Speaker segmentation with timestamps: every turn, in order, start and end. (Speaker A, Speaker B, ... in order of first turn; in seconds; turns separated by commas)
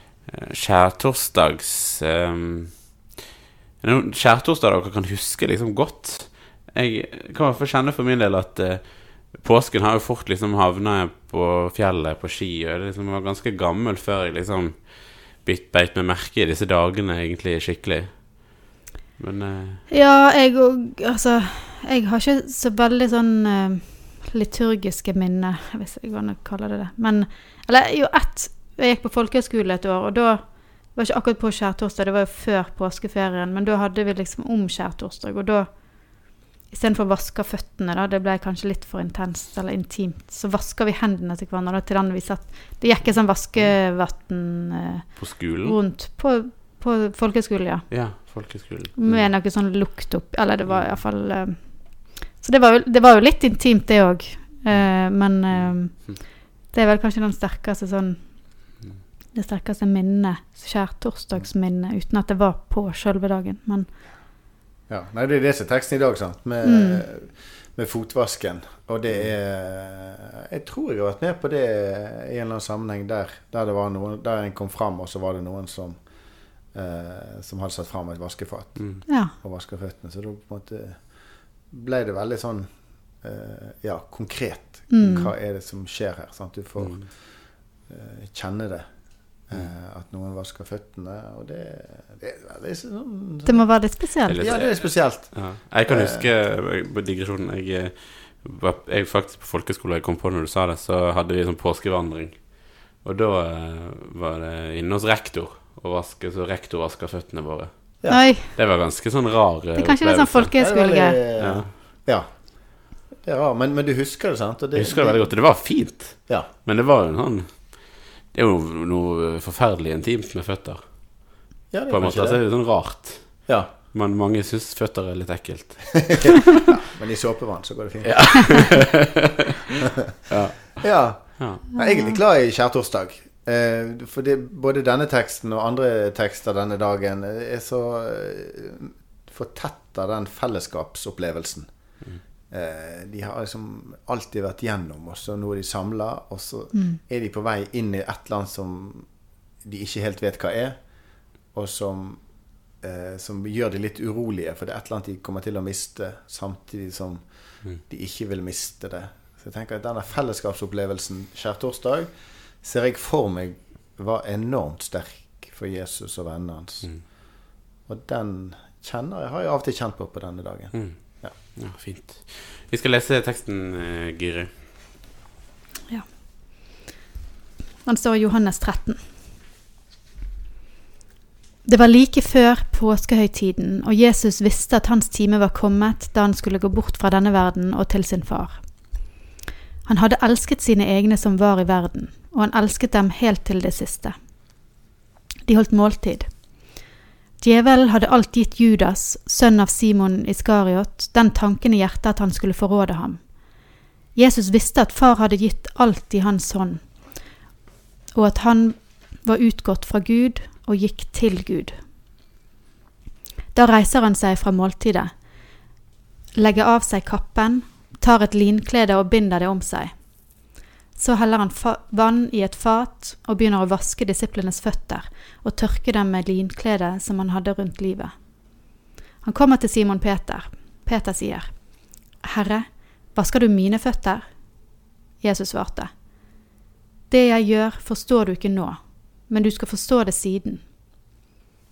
Speaker A: 0.3-3.1, Speaker A: 3.8-19.9, Speaker B: 19.9-58.8, Speaker A: 45.2-45.8, Speaker A: 47.9-49.3, Speaker A: 50.7-51.0, Speaker A: 54.7-56.2, Speaker B: 59.3-63.9, Speaker C: 64.9-76.0, Speaker B: 66.6-67.0, Speaker C: 76.6-88.8, Speaker A: 78.8-79.0, Speaker B: 79.1-79.3, Speaker B: 84.9-85.3, Speaker A: 86.8-87.1, Speaker C: 89.5-93.8, Speaker B: 93.4-94.4, Speaker A: 94.3-110.5, Speaker C: 94.4-96.2, Speaker B: 108.1-108.5, Speaker B: 109.8-111.2, Speaker C: 110.6-115.6, Speaker A: 111.4-111.7, Speaker A: 114.7-126.5, Speaker C: 121.7-122.4, Speaker C: 123.5-123.7, Speaker C: 126.1-128.8, Speaker A: 128.0-129.2, Speaker A: 130.3-131.6, Speaker C: 130.8-149.1, Speaker B: 131.7-132.2, Speaker B: 146.7-147.0, Speaker C: 149.6-152.3, Speaker C: 152.8-167.2, Speaker C: 167.8-171.3, Speaker A: 170.7-174.5, Speaker B: 176.6-176.8, Speaker B: 177.8-179.0, Speaker B: 181.6-189.1, Speaker B: 189.8-194.1, Speaker B: 195.4-196.8, Speaker B: 197.4-203.2, Speaker B: 204.1-206.9, Speaker B: 208.1-211.8, Speaker B: 213.5-215.1, Speaker B: 216.3-219.9, Speaker B: 220.9-228.1, Speaker B: 229.2-234.2, Speaker B: 235.2-235.9, Speaker B: 237.1-240.6